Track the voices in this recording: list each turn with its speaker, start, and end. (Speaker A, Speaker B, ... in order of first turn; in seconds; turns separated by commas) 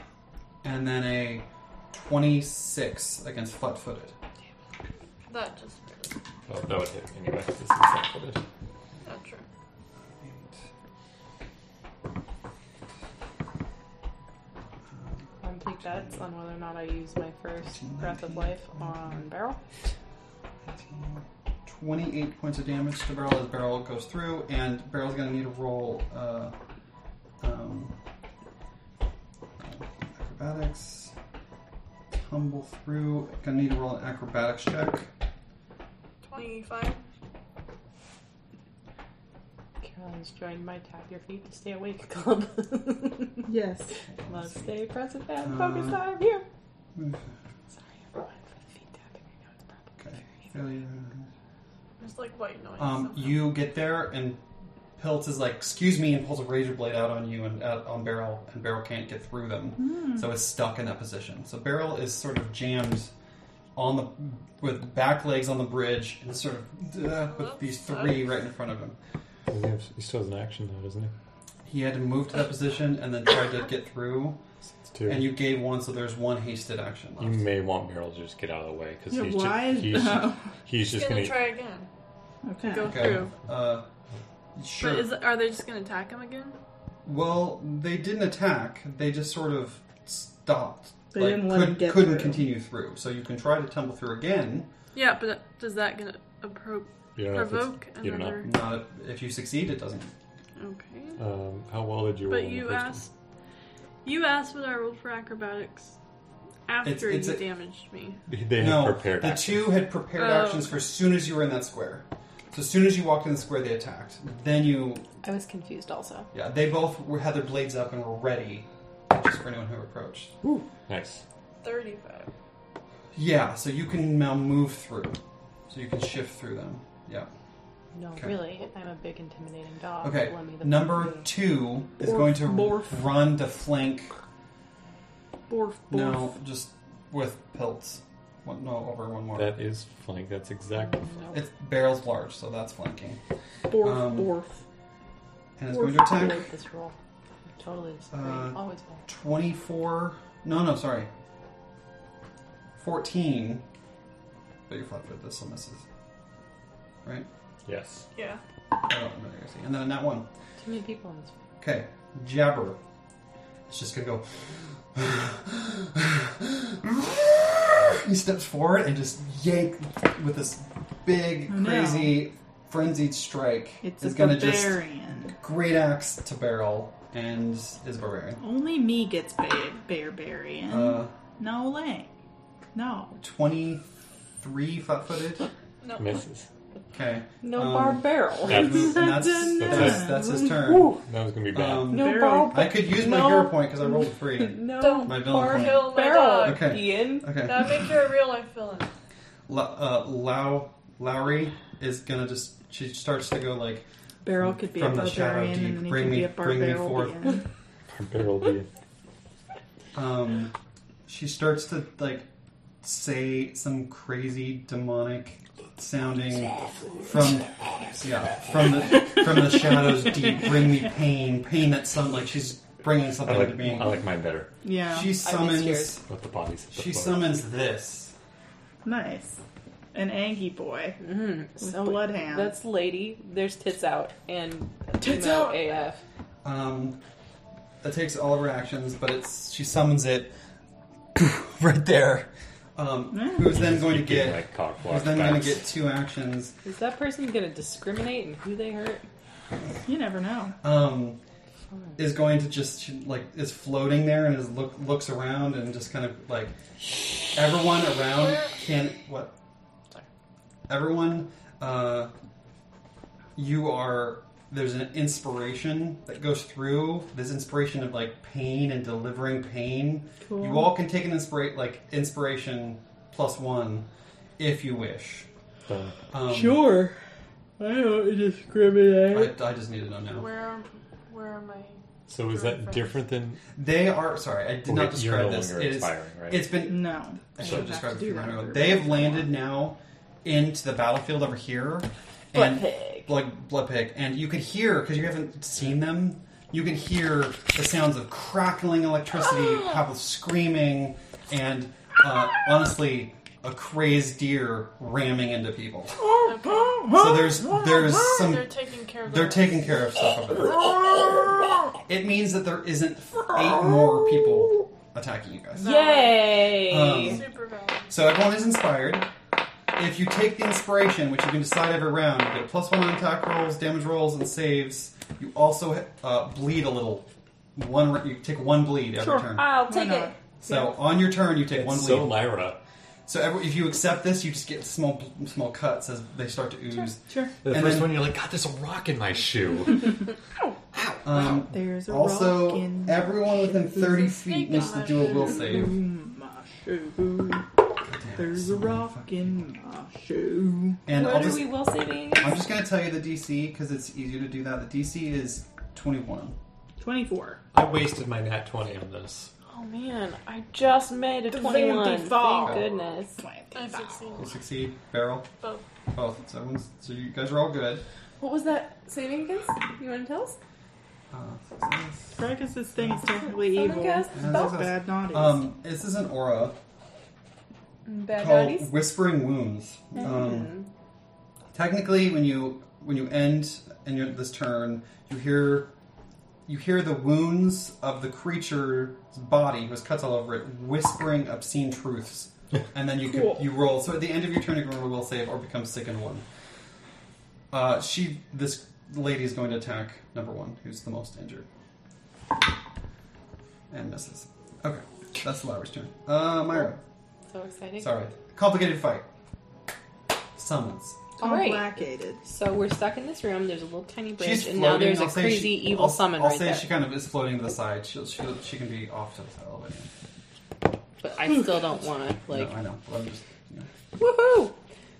Speaker A: 0.6-4.1, Speaker B: 5.3-6.2, Speaker C: 6.5-8.4, Speaker B: 9.0-9.4, Speaker A: 10.2-10.5, Speaker D: 15.4-19.6, Speaker A: 17.7-19.2, Speaker A: 20.6-26.6, Speaker A: 27.4-27.9, Speaker A: 29.6-31.1, Speaker A: 32.1-35.1, Speaker B: 36.2-37.0, Speaker D: 39.8-43.5, Speaker E: 43.4-44.0, Speaker A: 44.1-44.7, Speaker D: 44.3-46.4, Speaker A: 45.4-46.0, Speaker A: 47.0-47.2, Speaker D: 48.1-49.9, Speaker A: 50.0-51.3, Speaker B: 52.0-53.5, Speaker A: 52.8-54.4, Speaker A: 55.0-63.1, Speaker E: 59.8-60.3, Speaker A: 63.7-69.0, Speaker B: 67.2-68.3, Speaker C: 69.5-71.1, Speaker A: 71.7-74.4, Speaker C: 74.9-75.3, Speaker A: 75.0-77.4, Speaker C: 77.2-81.5, Speaker E: 79.1-80.4, Speaker B: 80.9-81.9, Speaker E: 82.5-83.0, Speaker B: 82.6-83.3, Speaker A: 82.8-83.8, Speaker A: 84.5-85.2, Speaker B: 84.8-86.5, Speaker A: 87.0-94.7, Speaker E: 91.1-92.5, Speaker B: 94.9-98.5, Speaker C: 97.2-98.5, Speaker A: 98.4-100.1, Speaker B: 100.5-101.2, Speaker C: 101.2-103.0, Speaker B: 102.3-103.1, Speaker B: 104.0-106.0, Speaker B: 106.7-108.2, Speaker A: 106.8-107.4, Speaker C: 108.3-109.8, Speaker A: 108.6-115.0, Speaker B: 110.1-110.8, Speaker D: 115.2-116.3, Speaker A: 116.3-120.3, Speaker C: 120.9-121.2, Speaker B: 121.6-122.3, Speaker A: 123.1-125.2, Speaker A: 125.7-127.3, Speaker D: 127.9-131.3, Speaker A: 130.0-134.1, Speaker E: 132.0-133.0, Speaker E: 135.5-136.3, Speaker A: 135.9-139.5, Speaker C: 139.3-141.1, Speaker D: 140.8-141.4, Speaker A: 141.3-143.2, Speaker E: 143.7-144.6, Speaker A: 143.8-144.3, Speaker A: 145.6-146.4, Speaker E: 145.7-146.3, Speaker D: 145.8-146.9, Speaker D: 147.6-149.0, Speaker A: 148.1-151.1, Speaker A: 152.8-153.7, Speaker A: 154.7-155.8, Speaker C: 157.6-158.1, Speaker B: 158.1-158.4, Speaker A: 158.8-160.3, Speaker D: 160.6-161.3, Speaker A: 161.6-162.8, Speaker A: 163.7-178.4, Speaker E: 171.5-172.2, Speaker E: 173.8-175.4, Speaker E: 178.4-182.1, Speaker A: 180.7-181.1, Speaker E: 182.7-183.2, Speaker A: 183.2-183.9, Speaker A: 184.4-185.4, Speaker B: 185.8-186.2, Speaker C: 186.0-186.5, Speaker A: 186.9-191.0, Speaker D: 187.4-189.2, Speaker C: 188.5-190.2, Speaker E: 188.9-190.4, Speaker D: 189.8-191.0, Speaker C: 191.0-192.1, Speaker A: 191.5-197.9, Speaker D: 191.9-197.3, Speaker E: 191.9-192.7, Speaker B: 194.7-198.9, Speaker A: 199.5-203.9, Speaker E: 204.2-207.4, Speaker A: 204.4-207.3, Speaker C: 207.9-208.7, Speaker A: 209.9-210.5, Speaker A: 211.1-212.3, Speaker A: 212.8-224.0, Speaker E: 218.9-220.5, Speaker C: 223.2-224.5, Speaker E: 224.6-225.1, Speaker A: 224.9-226.0, Speaker D: 225.0-226.0, Speaker C: 226.1-227.3, Speaker A: 226.7-228.1, Speaker E: 228.8-229.4, Speaker E: 229.9-231.0, Speaker D: 231.0-236.0, Speaker E: 231.6-232.5, Speaker E: 235.0-235.7, Speaker A: 236.4-237.0, Speaker A: 237.8-240.3, Speaker A: 241.2-246.5, Speaker E: 243.1-243.5, Speaker C: 243.5-245.6, Speaker D: 246.6-249.1, Speaker E: 249.8-250.6, Speaker A: 250.6-251.2, Speaker D: 251.7-252.0, Speaker A: 252.0-256.5, Speaker A: 257.3-259.3, Speaker B: 258.1-258.6, Speaker A: 260.7-262.1, Speaker A: 263.4-275.3, Speaker E: 270.2-270.7, Speaker C: 275.7-275.9, Speaker A: 276.1-276.7, Speaker E: 276.3-277.0, Speaker E: 277.6-279.3, Speaker A: 279.1-280.3, Speaker B: 280.1-282.9, Speaker C: 282.1-283.4, Speaker A: 283.5-306.2, Speaker C: 284.6-286.5, Speaker E: 286.6-289.4, Speaker D: 292.3-293.1, Speaker E: 306.0-308.2, Speaker B: 306.2-306.9, Speaker A: 306.9-310.7, Speaker B: 308.0-309.8, Speaker E: 310.5-311.6, Speaker A: 311.9-315.7, Speaker E: 313.5-314.1, Speaker B: 315.6-316.3, Speaker D: 315.6-317.2, Speaker A: 316.6-317.3, Speaker B: 316.9-317.9, Speaker A: 317.9-319.1, Speaker A: 319.8-329.6, Speaker E: 329.0-330.7, Speaker D: 329.3-330.1, Speaker A: 330.4-332.3, Speaker C: 331.5-332.6, Speaker A: 333.1-338.1, Speaker E: 337.0-337.3, Speaker C: 337.4-340.0, Speaker E: 340.7-344.2, Speaker A: 341.0-345.8, Speaker B: 344.1-345.7, Speaker E: 344.9-347.5, Speaker A: 347.9-349.2, Speaker E: 348.1-350.8, Speaker A: 350.9-356.4, Speaker D: 350.9-352.4, Speaker E: 356.8-357.4, Speaker C: 357.5-359.3, Speaker D: 359.5-363.2, Speaker E: 361.3-364.1, Speaker A: 362.4-362.6, Speaker B: 363.5-364.4, Speaker A: 364.2-365.3, Speaker B: 365.4-365.6, Speaker A: 365.9-367.8, Speaker D: 368.2-370.4, Speaker A: 371.1-372.3, Speaker E: 372.1-375.4, Speaker D: 373.2-374.5, Speaker A: 374.1-376.6, Speaker D: 377.9-378.7, Speaker A: 378.2-380.5, Speaker D: 380.0-380.7, Speaker A: 381.5-385.7, Speaker A: 386.4-396.2, Speaker E: 393.0-393.5, Speaker A: 397.5-401.5, Speaker A: 403.7-406.8, Speaker D: 407.3-408.0, Speaker A: 407.8-409.1, Speaker A: 410.4-411.0, Speaker E: 411.2-412.2, Speaker D: 411.2-416.7, Speaker A: 414.2-419.9, Speaker D: 421.0-422.6, Speaker A: 422.3-423.7, Speaker D: 424.0-424.6